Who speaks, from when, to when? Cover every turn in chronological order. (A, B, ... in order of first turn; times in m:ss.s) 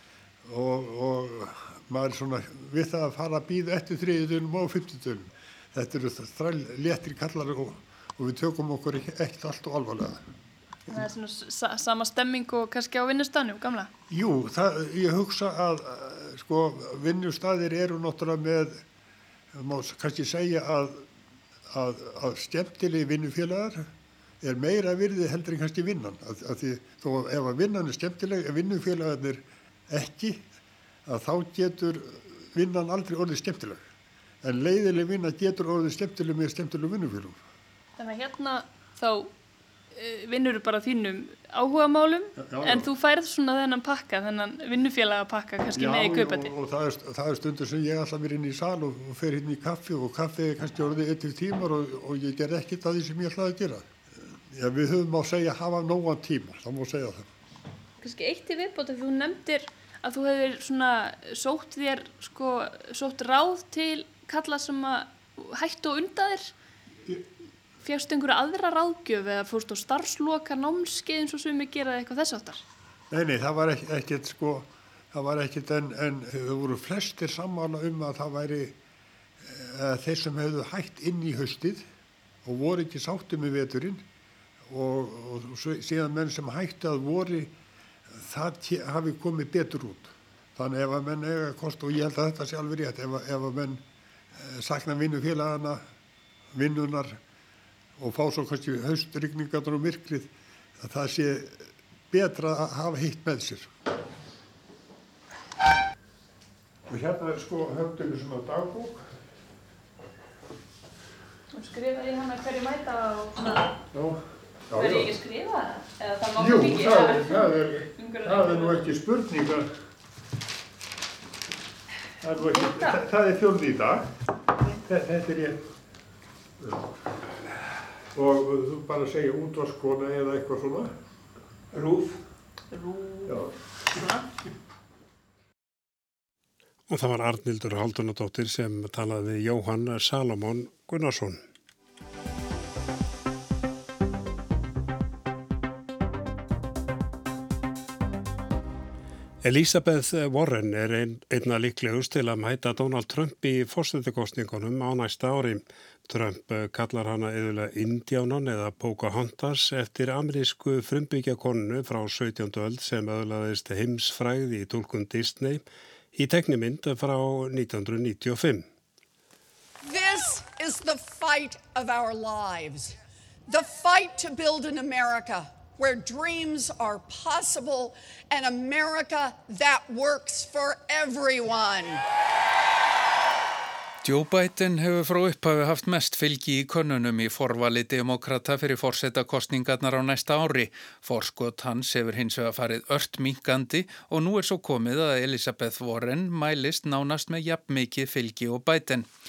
0:00.4-0:10.2 A
0:10.9-0:13.9 B
0:14.1-0:18.8 A
0:19.5-0:21.0 A
0:21.7-0:23.9 A
0:24.4-0:30.4 A
0:31.0-0:33.8 A
0:34.4-0:37.4 A
0:38.0-0:39.3 B
0:39.9-0:46.5 B
0:42.4-0:42.9 A
0:45.7-0:53.8 A
0:54.5-0:57.3 A
0:58.0-1:06.5 B
1:07.8-1:12.6 B
1:13.1-1:18.8 A
1:19.4-1:21.8 A
1:22.4-1:24.0 A
1:24.7-1:27.5 A
1:28.1-1:33.8 A
1:34.3-1:35.8 A
1:36.5-1:37.2 A
1:38.0-1:43.7 A
1:46.9-1:49.1 A
1:51.5-1:53.7 B
1:53.9-1:55.1 A
1:54.7-1:58.9 B
1:56.4-1:59.7 A
2:02.2-2:04.1 A
2:02.6-2:02.9 B
2:04.8-2:05.6 A
2:08.1-2:10.9 A
2:11.8-2:12.0 A
2:12.7-2:13.3 B
2:13.2-2:13.5 A
2:16.9-2:21.4 C
2:29.4-2:48.6 C
2:49.8-3:02.0 D
3:04.0-3:19.1 E